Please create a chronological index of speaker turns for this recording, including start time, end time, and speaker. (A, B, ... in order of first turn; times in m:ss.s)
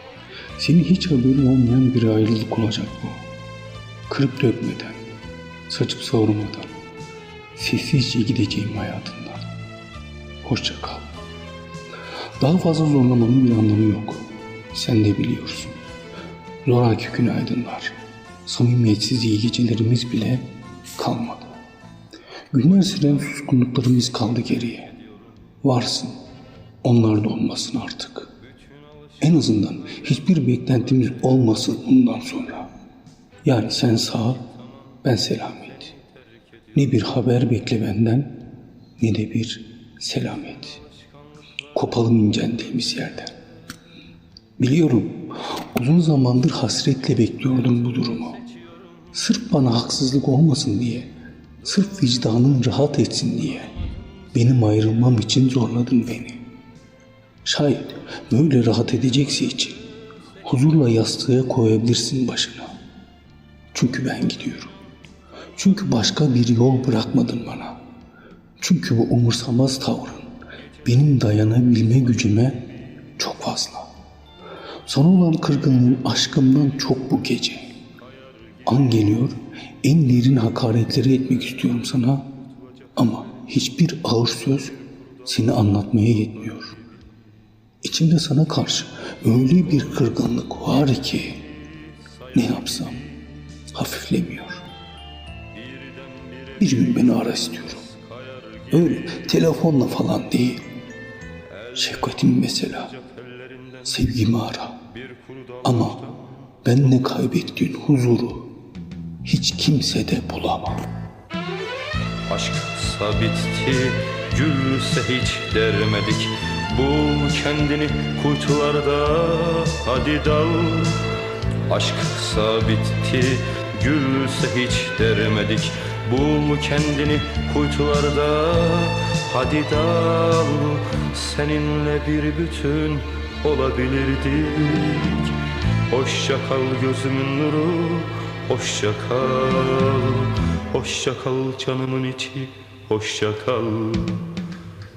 0:00.6-0:03.2 A
0:04.1-0:05.0 A
0:05.7-0:06.7 A
0:07.6-0:09.4 A
0:10.4-0:11.0 A
0:12.4-0:15.8 A
0:16.6-0:21.6 A
0:22.5-0:24.9 A
0:25.6-0:26.2 A
0:26.8-0:28.3 A
0:29.2-0:32.7 A
0:33.4-0:34.5 A
0:35.0-0:35.9 A
0:36.7-0:38.4 A
0:39.0-0:40.8 A
0:41.7-0:43.4 A
0:44.6-0:48.4 A
0:49.1-0:51.1 A
0:51.6-0:53.7 A
0:54.3-0:56.4 A
0:57.4-0:59.8 A
1:00.4-1:02.7 A
1:03.7-1:04.8 A
1:05.5-1:07.8 A
1:08.6-1:13.9 A
1:14.9-1:17.7 A
1:18.6-1:22.3 A
1:23.0-1:26.8 A
1:27.8-1:31.5 A
1:31.7-1:31.9 B
1:32.3-1:34.6 A
1:35.5-1:36.6 B
1:36.6-1:37.9 A
1:37.9-1:38.6 B
1:38.7-1:40.6 A
1:41.7-1:43.0 A
1:43.0-1:43.8 B
1:43.8-1:44.9 A
1:45.0-1:46.5 B
1:45.6-1:46.1 A
1:46.6-1:48.5 A
1:49.2-1:50.9 A
1:52.2-2:24.3 B